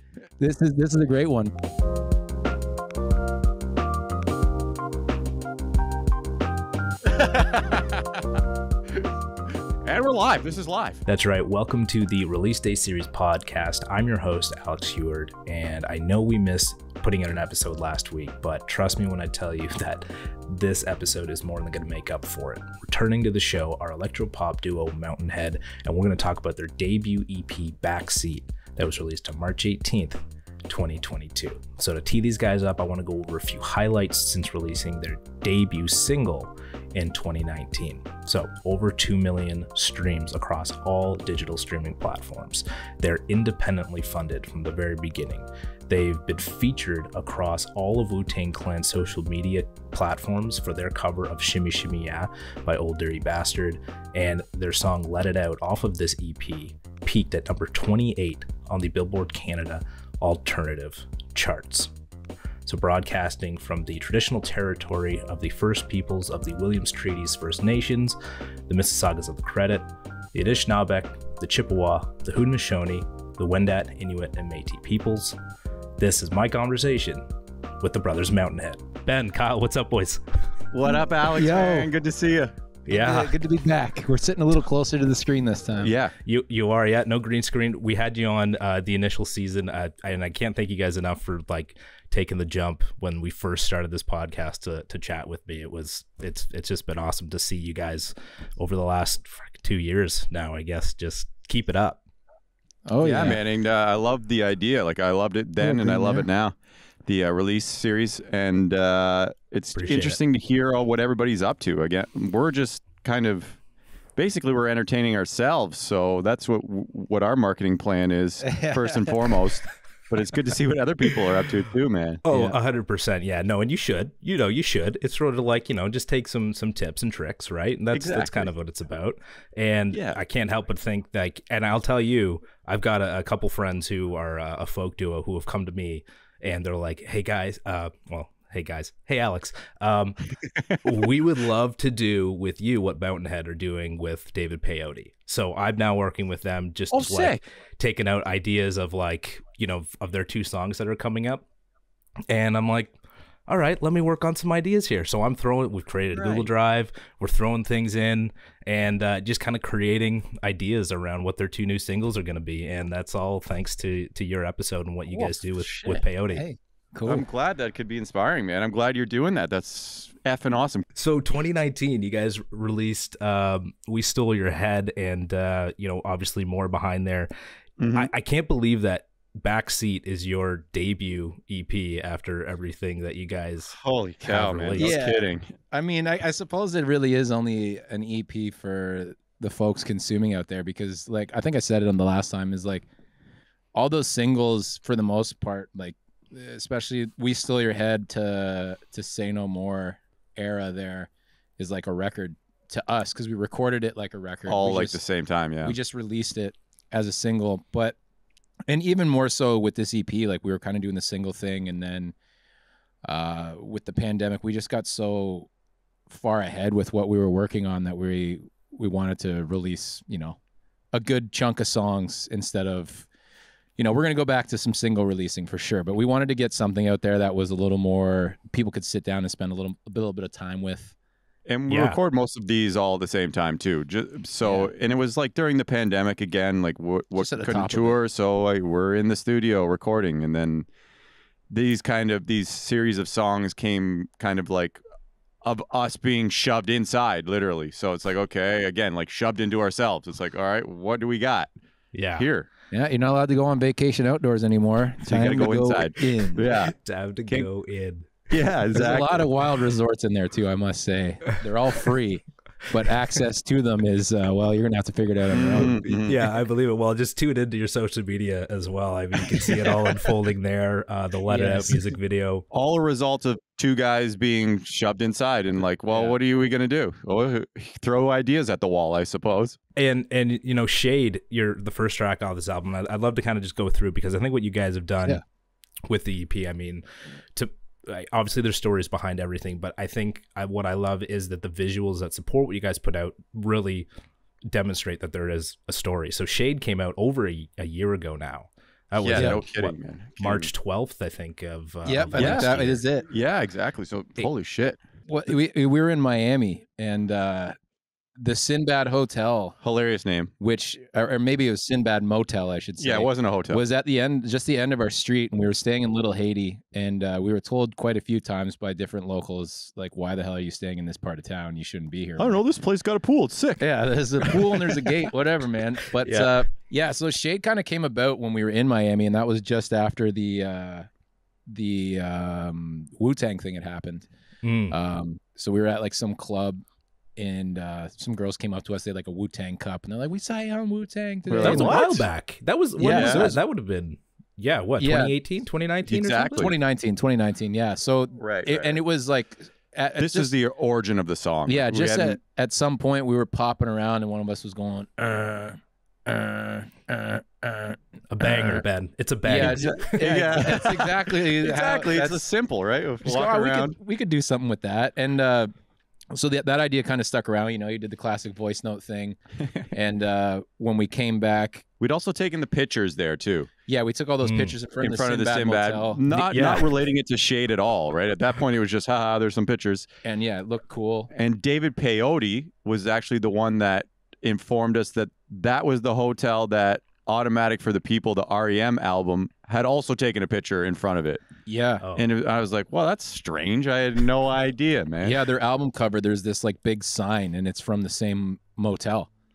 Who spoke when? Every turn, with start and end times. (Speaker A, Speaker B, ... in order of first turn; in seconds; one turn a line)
Speaker A: 0.4-1.5
Speaker B: 7.1-8.0
Speaker B: 9.8-11.0
Speaker C: 11.1-61.9
Speaker C: 62.6-75.4
Speaker C: 76.0-77.2
Speaker C: 77.8-80.2
Speaker B: 80.7-82.5
Speaker A: 81.3-81.9
Speaker C: 82.8-83.4
Speaker A: 82.9-85.9
Speaker B: 85.8-86.1
Speaker C: 86.2-102.0
Speaker A: 102.9-103.4
Speaker B: 103.0-106.5
Speaker C: 103.1-103.3
Speaker A: 105.6-106.3
Speaker B: 107.0-113.6
Speaker C: 109.8-110.2
Speaker B: 114.2-122.2
Speaker A: 118.5-119.1
Speaker C: 122.2-140.2
Speaker A: 122.3-122.6
Speaker B: 127.9-128.5
Speaker B: 129.9-130.2
Speaker C: 140.8-151.4
Speaker B: 146.9-147.4
Speaker C: 152.3-152.9
Speaker C: 153.5-166.4
Speaker B: 156.1-156.5
Speaker A: 165.1-167.2
Speaker B: 167.1-170.8
Speaker C: 170.9-177.3
Speaker B: 177.8-178.1
Speaker C: 177.9-183.7
Speaker B: 183.7-185.5
Speaker C: 184.2-184.9
Speaker A: 184.8-192.8
Speaker A: 193.7-205.0
Speaker B: 204.5-205.8
Speaker A: 205.6-207.9
Speaker A: 208.7-212.1
Speaker A: 213.0-215.5
Speaker A: 216.1-220.4
Speaker A: 220.9-223.1
Speaker A: 223.8-230.9
Speaker B: 231.5-240.7
Speaker C: 231.7-232.0
Speaker A: 234.4-234.7
Speaker A: 237.2-237.9
Speaker B: 241.5-244.8
Speaker B: 245.4-251.5
Speaker C: 251.9-252.2
Speaker B: 252.1-252.5
Speaker A: 252.7-256.5
Speaker B: 255.0-256.7
Speaker C: 256.5-258.3
Speaker B: 258.3-259.3
Speaker A: 258.7-265.9
Speaker B: 265.3-266.2
Speaker C: 265.4-272.4
Speaker A: 271.3-271.9
Speaker B: 272.5-279.6
Speaker A: 275.9-276.1
Speaker C: 279.8-285.2
Speaker C: 285.9-293.9
Speaker C: 294.5-302.8
Speaker B: 299.0-300.5
Speaker A: 301.9-303.1
Speaker B: 302.1-302.5
Speaker B: 303.1-304.8
Speaker A: 305.1-307.5
Speaker A: 308.2-309.6
Speaker B: 309.6-310.3
Speaker A: 310.4-322.4
Speaker B: 312.8-313.6
Speaker B: 322.2-323.6
Speaker A: 323.6-330.9
Speaker C: 326.0-326.3
Speaker A: 331.5-334.1
Speaker C: 334.4-334.8
Speaker A: 334.7-336.6
Speaker A: 337.2-341.9
Speaker B: 341.3-342.1
Speaker C: 341.4-346.5
Speaker A: 342.8-343.4
Speaker B: 342.8-343.3
Speaker A: 344.8-345.1
Speaker B: 345.9-346.5
Speaker A: 346.3-350.3
Speaker B: 348.2-348.8
Speaker B: 350.0-352.2
Speaker A: 351.5-357.8
Speaker C: 358.1-359.9
Speaker B: 358.2-358.6
Speaker A: 359.2-362.2
Speaker B: 359.4-363.7
Speaker A: 363.0-365.5
Speaker A: 366.1-369.2
Speaker A: 369.7-371.6
Speaker B: 371.8-373.5
Speaker A: 373.7-376.6
Speaker C: 374.2-374.5
Speaker B: 374.8-379.9
Speaker C: 376.3-376.6
Speaker A: 380.0-381.1
Speaker B: 381.1-391.2
Speaker A: 391.4-391.9
Speaker B: 391.9-395.2
Speaker A: 395.0-399.1